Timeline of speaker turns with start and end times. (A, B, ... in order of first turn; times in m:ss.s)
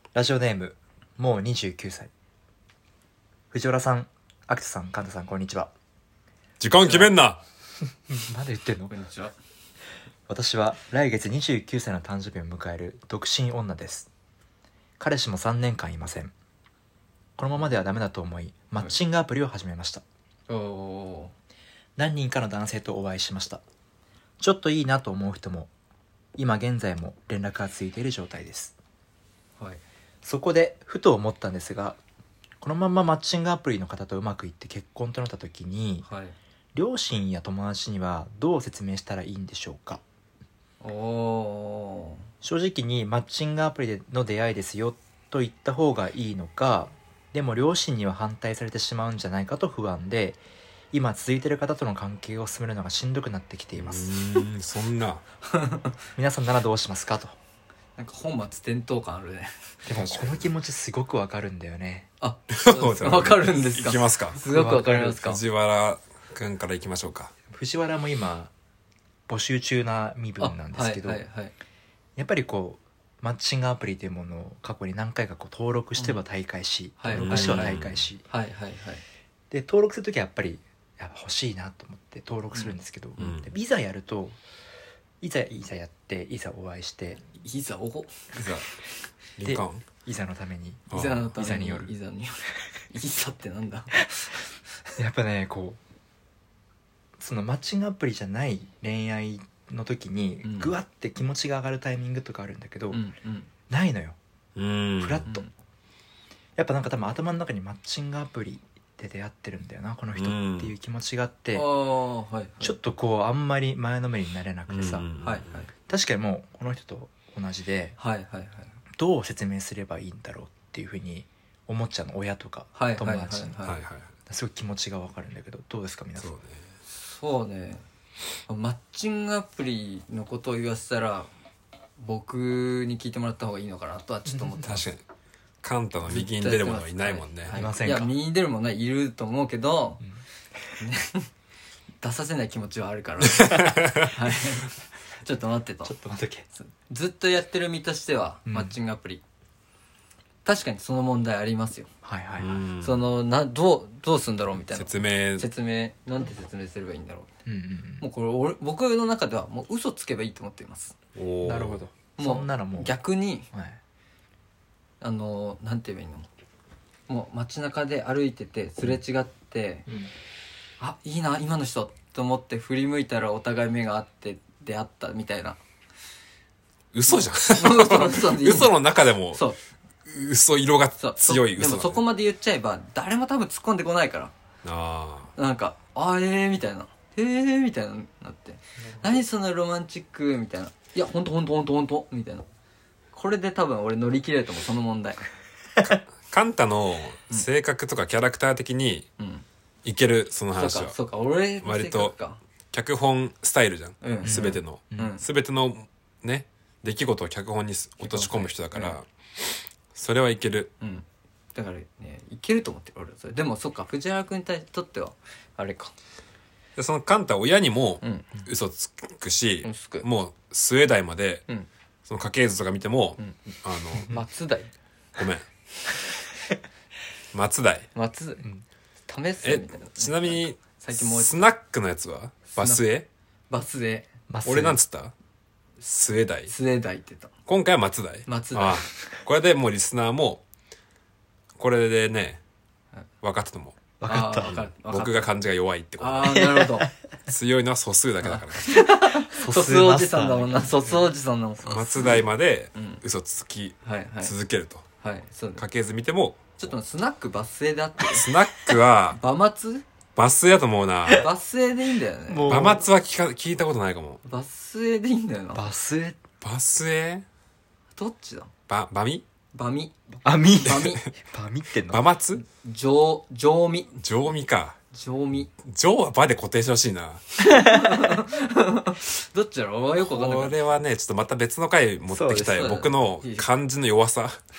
0:00.1-0:02.1 A
0:03.5-0:05.7 A
0:06.6-0:07.4 B
0:06.8-0:07.1 C
0:08.1-0:09.0 A
0:08.9-0:09.3 C
0:10.3-0:14.1 A
0:15.0-0:16.3 A
0:17.4-0:20.0 A
0:20.5-0:21.3 C
0:22.0-0:23.6 A
0:24.4-0:25.7 A
0:26.4-0:28.8 A
0:30.2-0:32.0 A
0:32.6-0:36.1 A
0:36.0-0:36.4 C
0:36.7-0:40.0 A
0:40.8-0:42.3 C
0:42.4-0:50.4 A
0:50.9-0:54.2 A
0:53.8-0:55.2 B
0:55.4-0:56.0 C
0:56.2-0:57.4 A
0:58.0-0:59.8 C
0:59.9-1:02.1 A
1:00.1-1:00.4 B
1:02.2-1:05.4 C
1:02.5-1:04.4 B
1:04.4-1:05.2 A
1:05.0-1:07.3 B
1:07.5-1:08.5 A
1:09.3-1:11.2 A
1:10.4-1:11.5 C
1:12.2-1:18.2 A
1:17.0-1:19.0 C
1:17.1-1:18.0 B
1:19.5-1:24.4 A
1:23.2-1:23.5 B
1:25.2-1:27.2 A
1:27.3-1:28.6 C
1:28.3-1:28.7 B
1:29.4-1:29.8 B
1:29.4-1:31.9 A
1:30.9-1:31.3 B
1:30.9-1:34.9 C
1:35.0-1:35.8 A
1:37.2-1:43.0 A
1:40.4-1:40.8 C
1:42.9-1:43.5 C
1:43.7-1:44.2 A
1:44.6-1:45.3 B
1:45.0-1:45.4 A
1:46.6-1:51.6 A
1:50.2-1:50.7 B
1:51.5-1:52.8 C
1:52.6-1:55.0 A
1:54.7-1:55.6 B
1:55.2-1:55.7 C
1:55.9-1:58.0 A
1:58.0-1:58.7 C
1:59.0-2:03.6 A
2:02.8-2:03.8 C
2:03.6-2:04.1 B
2:04.3-2:06.4 A
2:06.2-2:06.6 B
2:06.9-2:07.8 C
2:08.5-2:11.3 C
2:12.0-2:14.8 C
2:14.6-2:15.0 B
2:15.6-2:17.6 B
2:16.1-2:20.0 C
2:17.5-2:18.1 A
2:20.8-2:21.3 C
2:22.0-2:26.0 C
2:23.2-2:24.1 B
2:25.8-2:26.5 A
2:26.6-2:29.2 C
2:28.5-2:28.7 A
2:30.4-2:31.9 C
2:32.0-2:32.6 A
2:32.4-2:33.0 B
2:32.8-2:37.3 C
2:34.7-2:35.5 B
2:37.4-2:38.0 A
2:38.0-2:41.0 C
2:41.2-2:41.8 B
2:41.4-2:43.0 A
2:42.2-2:43.5 C
2:43.5-2:43.8 A
2:45.0-2:46.3 C
2:47.1-2:49.9 C
2:50.8-2:55.6 C
2:56.9-2:59.4 B
2:57.1-2:58.8 C
2:59.3-2:59.6 C
3:00.1-3:02.0 B
3:01.0-3:04.3 C
3:04.6-3:05.3 B
3:05.4-3:12.5 C
3:08.8-3:09.2 A
3:13.1-3:15.3 C
3:16.2-3:19.1 B
3:19.2-3:19.4 C
3:19.8-3:21.0 B
3:20.6-3:22.4 C
3:21.6-3:22.2 B
3:22.7-3:29.0 B
3:24.0-3:25.2 C
3:24.2-3:25.1 A
3:28.0-3:29.0 C
3:29.9-3:30.7 B
3:30.8-3:35.9 C
3:36.8-3:41.5 B
3:38.0-3:38.3 C
3:39.6-3:40.1 C
3:42.1-3:44.2 B
3:44.0-3:44.7 C
3:45.2-3:45.4 B
3:47.3-3:47.9 B
3:48.0-3:48.5 C
3:49.1-3:51.4 C
3:49.4-3:53.1 B
3:52.5-3:52.8 C
3:53.5-3:54.1 C
3:54.3-3:54.8 A
3:54.4-3:55.1 B
3:55.8-3:56.5 B
3:56.5-3:57.3 C
3:57.5-4:00.4 B
3:58.3-3:59.1 C
4:01.6-4:02.4 B
4:03.2-4:03.9 B
4:04.0-4:04.5 A
4:04.1-4:05.3 C
4:04.4-4:06.4 B
4:06.0-4:06.9 C
4:06.3-4:06.9 A
4:07.3-4:08.8 B
4:08.2-4:12.1 C
4:09.2-4:10.9 A
4:11.6-4:14.9 B
4:12.8-4:13.0 C
4:13.8-4:14.3 C
4:15.0-4:15.6 C
4:15.6-4:16.6 B
4:16.6-4:18.3 C
4:18.1-4:19.2 B
4:19.1-4:19.8 C
4:20.2-4:21.3 B
4:21.2-4:22.6 C
4:22.3-4:22.9 A
4:22.5-4:24.2 B
4:24.2-4:25.7 C
4:25.5-4:26.2 A
4:26.4-4:27.2 B
4:28.0-4:28.5 C
4:28.7-4:29.2 B
4:29.5-4:31.0 C
4:30.2-4:32.0 A
4:30.8-4:31.1 B
4:31.9-4:32.4 B
4:32.4-4:33.9 C
4:34.0-4:34.8 B
4:34.9-4:35.5 C
4:35.6-4:37.2 B
4:37.4-4:40.6 C
4:37.4-4:38.2 A
4:40.0-4:44.4 B
4:42.1-4:42.7 A
4:42.4-4:43.5 C